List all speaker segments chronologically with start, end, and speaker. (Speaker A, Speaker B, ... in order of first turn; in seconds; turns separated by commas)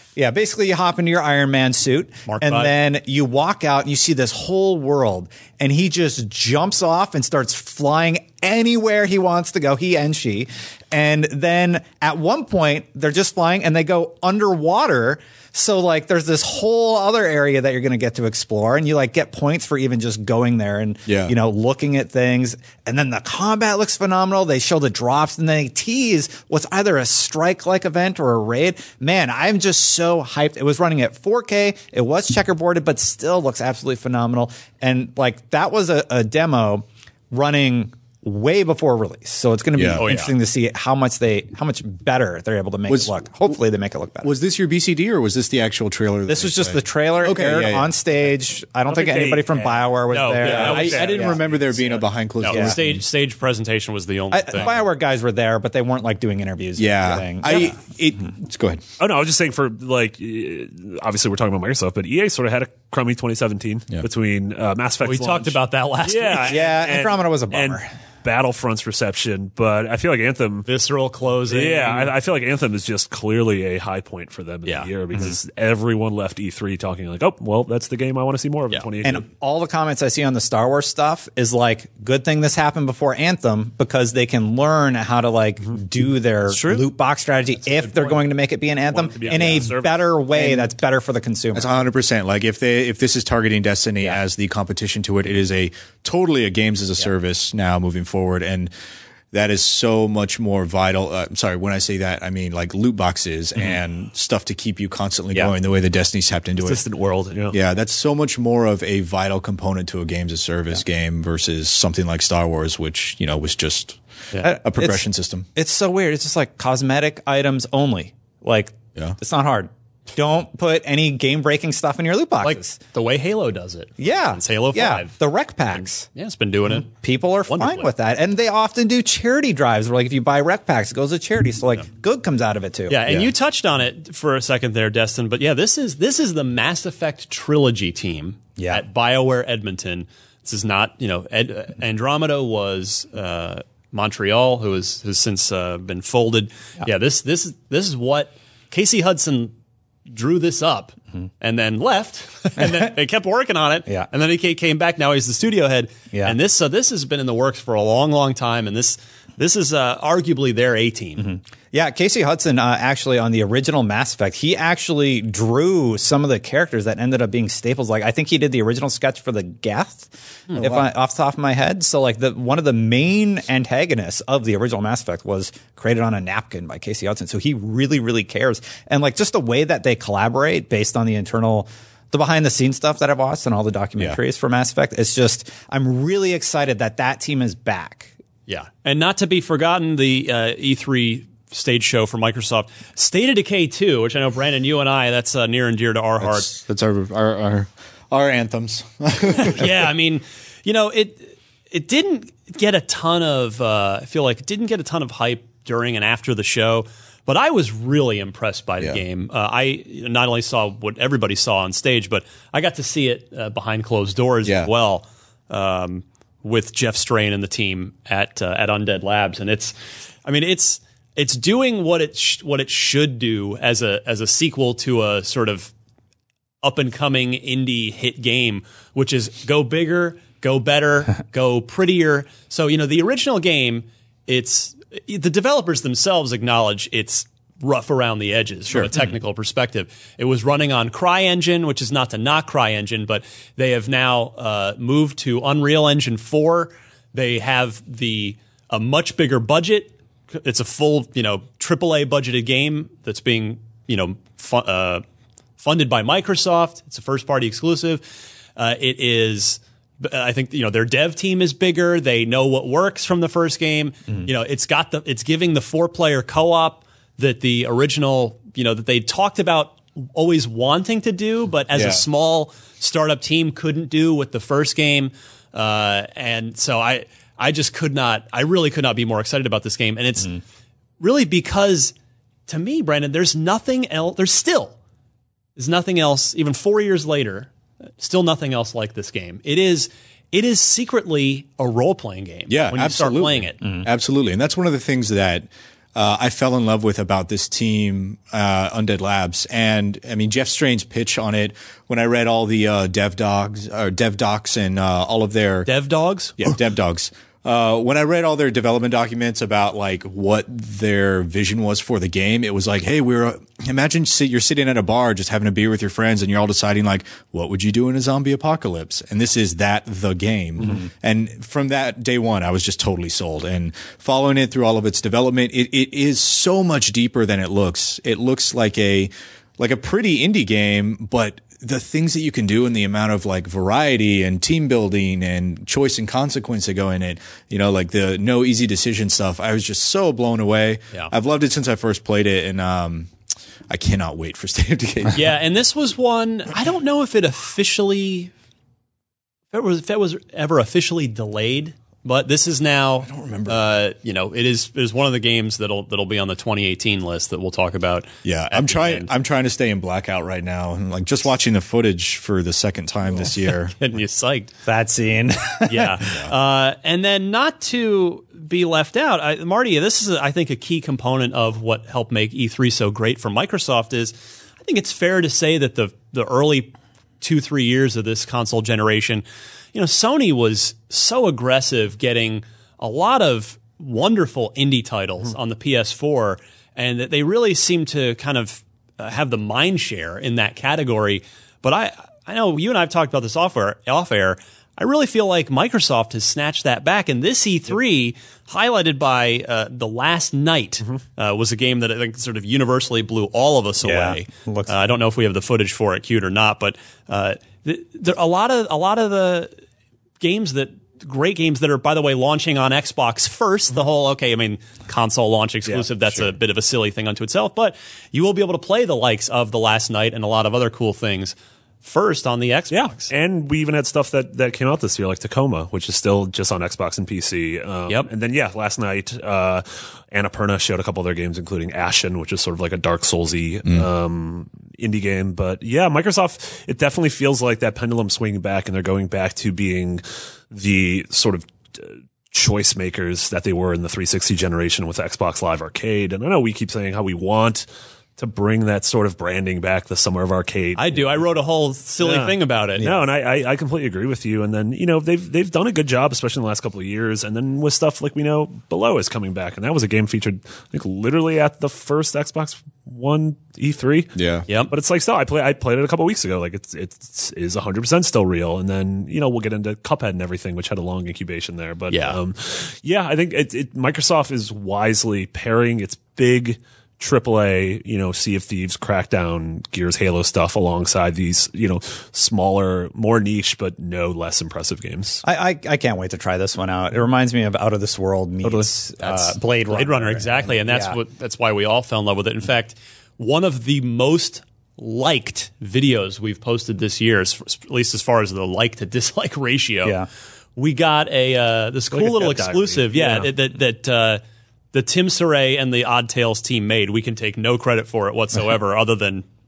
Speaker A: 0.1-44.3, Speaker B: 2.3-2.7, Speaker C: 21.1-21.3, Speaker C: 39.7-40.0, Speaker B: 40.0-40.3, Speaker C: 42.9-43.1, Speaker C: 44.2-47.9, Speaker A: 46.2-51.4, Speaker D: 48.9-51.3, Speaker B: 50.1-54.7, Speaker C: 50.4-53.0, Speaker A: 52.5-52.8, Speaker A: 54.3-57.8, Speaker C: 56.8-58.8, Speaker D: 59.0-70.7, Speaker B: 65.0-66.6, Speaker A: 66.5-67.9, Speaker B: 70.7-72.1, Speaker D: 71.5-79.2, Speaker A: 79.0-91.8, Speaker B: 86.5-86.8, Speaker D: 87.7-88.2, Speaker D: 88.9-90.2, Speaker C: 90.4-90.7, Speaker C: 91.5-98.7, Speaker C: 99.3-106.8, Speaker D: 106.6-107.5, Speaker C: 107.5-114.0, Speaker A: 114.4-122.8, Speaker C: 114.6-115.5, Speaker B: 122.4-125.1, Speaker A: 124.0-126.1, Speaker B: 125.7-126.9, Speaker A: 126.7-133.3, Speaker B: 127.5-127.9, Speaker B: 132.9-149.5, Speaker A: 138.6-138.8, Speaker B: 150.1-161.3, Speaker A: 156.1-156.4, Speaker A: 161.2-188.1, Speaker C: 170.5-170.8, Speaker B: 188.5-196.5, Speaker C: 196.2-199.7, Speaker B: 199.4-219.7, Speaker C: 214.4-214.7, Speaker B: 220.2-225.7, Speaker B: 226.6-255.0, Speaker B: 255.6-258.0, Speaker B: 258.6-280.4, Speaker C: 271.7-272.0, Speaker B: 281.0-281.9, Speaker B: 282.5-284.8, Speaker B: 285.6-293.6, Speaker C: 292.5-305.7, Speaker B: 305.6-306.5, Speaker C: 306.4-343.1, Speaker C: 343.7-345.3, Speaker B: 345.1-348.3, Speaker B: 349.5-359.1, Speaker C: 353.0-353.6, Speaker C: 358.2-363.8, Speaker B: 363.8-364.5, Speaker A: 364.6-366.1, Speaker B: 365.7-409.5, Speaker A: 403.8-404.8, Speaker B: 410.2-423.1, Speaker D: 415.6-416.2, Speaker D: 422.7-447.6, Speaker D: 448.2-451.3, Speaker B: 450.8-452.9, Speaker D: 452.0-485.2, Speaker A: 452.8-453.1, Speaker C: 464.1-464.4, Speaker B: 464.5-464.7, Speaker B: 471.9-472.2, Speaker A: 485.2-490.9, Speaker D: 488.4-488.7, Speaker B: 489.0-499.9, Speaker B: 500.6-504.2, Speaker D: 501.9-503.3, Speaker B: 504.7-509.2